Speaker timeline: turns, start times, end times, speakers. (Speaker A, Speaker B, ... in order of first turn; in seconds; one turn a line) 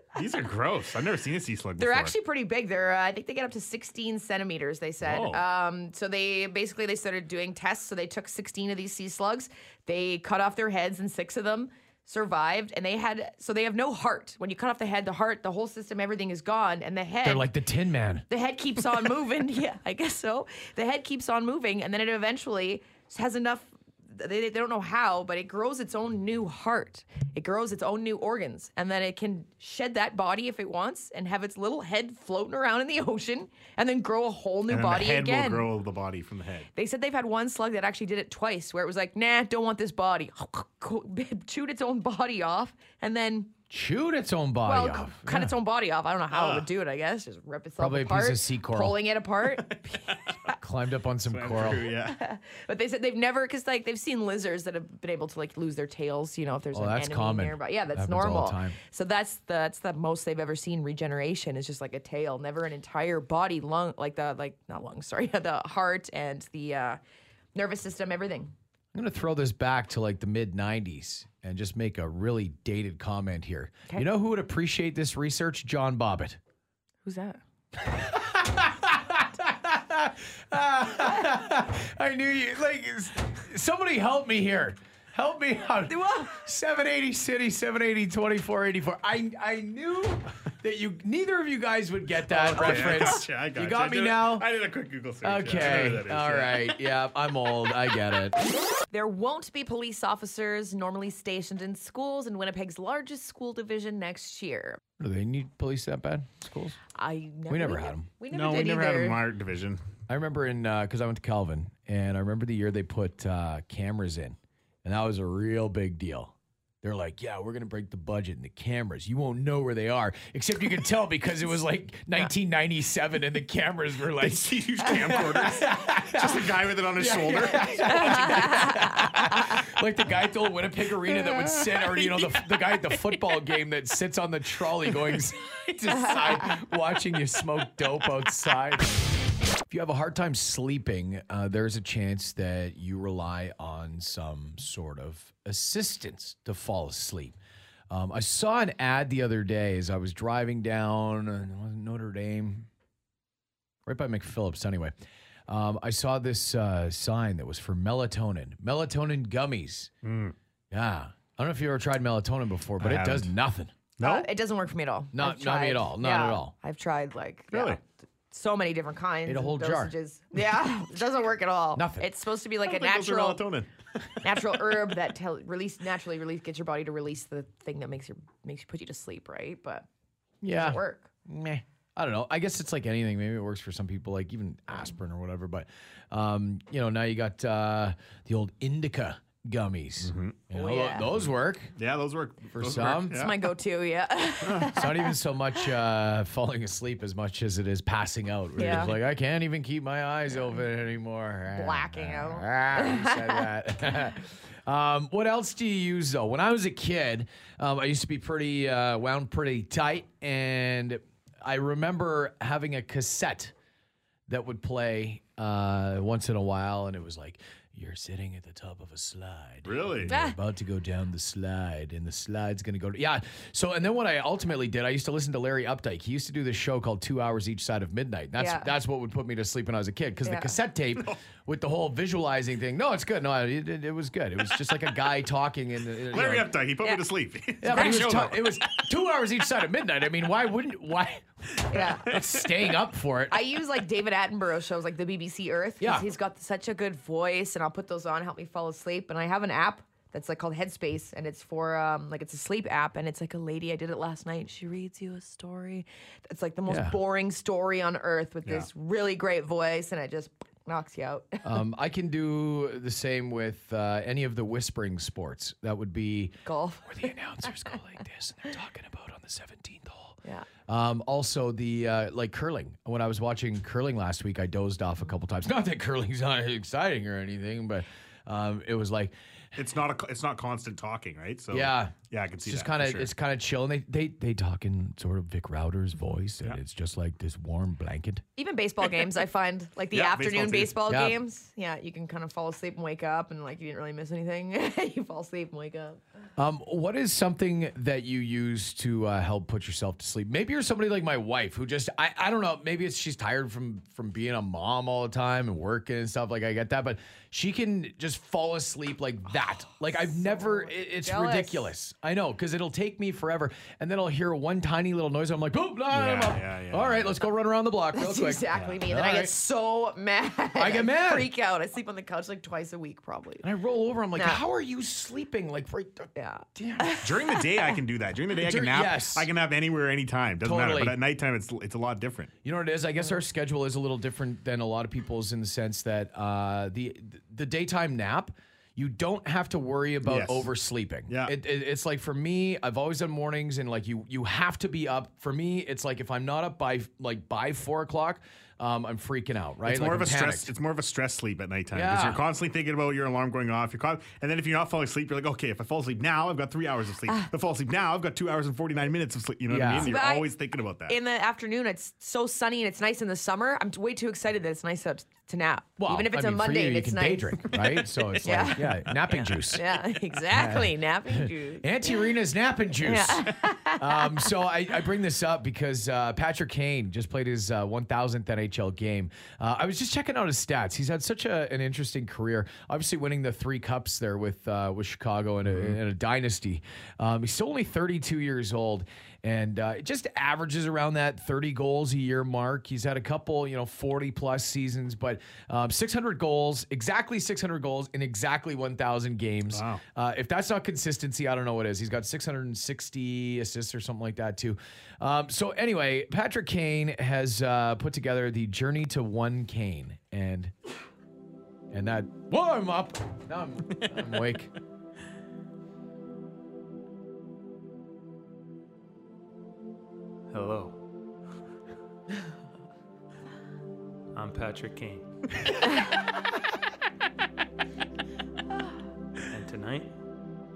Speaker A: 0.1-2.1
Speaker B: 1.8-17.5
Speaker A: 5.0-5.4
Speaker C: 17.2-18.2
Speaker B: 18.3-35.7
Speaker A: 34.7-36.7
Speaker B: 36.7-43.5
Speaker C: 43.7-45.5
Speaker B: 44.6-50.5
Speaker A: 46.3-46.7
Speaker C: 47.8-49.0
Speaker A: 49.6-50.3
Speaker C: 50.6-51.9
Speaker A: 51.3-52.1
Speaker B: 52.0-67.0
Speaker C: 56.7-58.8
Speaker B: 67.5-68.5
Speaker C: 68.9-76.4
Speaker B: 77.0-77.4
Speaker C: 77.8-94.5
Speaker B: 85.9-86.4
Speaker A: 92.3-96.8
Speaker B: 92.6-93.0
Speaker C: 95.2-98.4
Speaker B: 98.9-104.8
Speaker C: 105.0-106.8
Speaker B: 106.9-109.2
Speaker C: 107.5-108.1
Speaker A: 108.3-109.8
Speaker C: 110.1-139.1
Speaker A: 124.2-128.7
Speaker B: 127.9-129.6
Speaker A: 131.6-132.4
Speaker C: 139.7-147.3
Speaker C: 147.9-152.7
Speaker C: 153.8-154.9
Speaker C: 155.5-159.9
Speaker A: 160.0-160.3
Speaker C: 160.7-163.7
Speaker A: 162.8-163.3
Speaker A: 164.0-164.3
Speaker B: 164.0-173.4
Speaker C: 165.1-166.5
Speaker A: 167.5-167.8
Speaker C: 169.2-169.9
Speaker C: 171.8-172.1
Speaker A: 172.6-173.7
Speaker B: 174.2-179.9
Speaker C: 180.4-191.7
Speaker B: 180.5-181.1
Speaker A: 190.0-190.4
Speaker B: 190.5-191.1
Speaker A: 191.8-193.4
Speaker C: 192.5-193.3
Speaker B: 193.1-195.1
Speaker C: 194.7-213.5
Speaker B: 198.6-198.9
Speaker A: 198.6-198.9
Speaker B: 201.5-203.4
Speaker C: 214.3-236.5
Speaker A: 219.7-220.1
Speaker B: 220.1-220.4
Speaker B: 228.4-228.7
Speaker B: 230.2-230.5
Speaker A: 236.1-238.7
Speaker C: 237.6-243.5
Speaker B: 241.7-242.0
Speaker A: 241.9-242.5
Speaker B: 243.3-261.5
Speaker C: 245.8-246.1
Speaker C: 256.7-257.0
Speaker C: 261.4-279.1
Speaker B: 266.4-267.1
Speaker A: 279.5-283.1
Speaker C: 281.5-288.2
Speaker B: 288.4-296.0
Speaker A: 289.9-290.8
Speaker C: 290.9-291.2
Speaker C: 296.4-319.3
Speaker B: 309.9-311.6
Speaker A: 315.9-317.1
Speaker B: 317.9-323.4
Speaker C: 320.5-321.3
Speaker C: 323.4-327.0
Speaker B: 324.1-324.4
Speaker B: 326.1-327.4
Speaker A: 327.0-332.3
Speaker C: 328.4-329.3
Speaker C: 330.4-330.9
Speaker C: 332.4-350.5
Speaker A: 340.0-340.5
Speaker A: 341.1-341.3
Speaker A: 349.6-361.0
Speaker C: 351.7-352.2
Speaker C: 359.5-359.9
Speaker B: 359.8-360.3
Speaker B: 360.9-367.6
Speaker C: 365.8-369.6
Speaker B: 368.2-368.8
Speaker A: 368.9-369.6
Speaker B: 369.5-372.0
Speaker C: 370.3-410.5
Speaker B: 372.8-374.3
Speaker A: 385.5-385.8
Speaker A: 399.5-399.8
Speaker C: 411.7-414.5
Speaker D: 420.3-420.8
Speaker D: 424.1-425.3
Speaker D: 429.3-429.9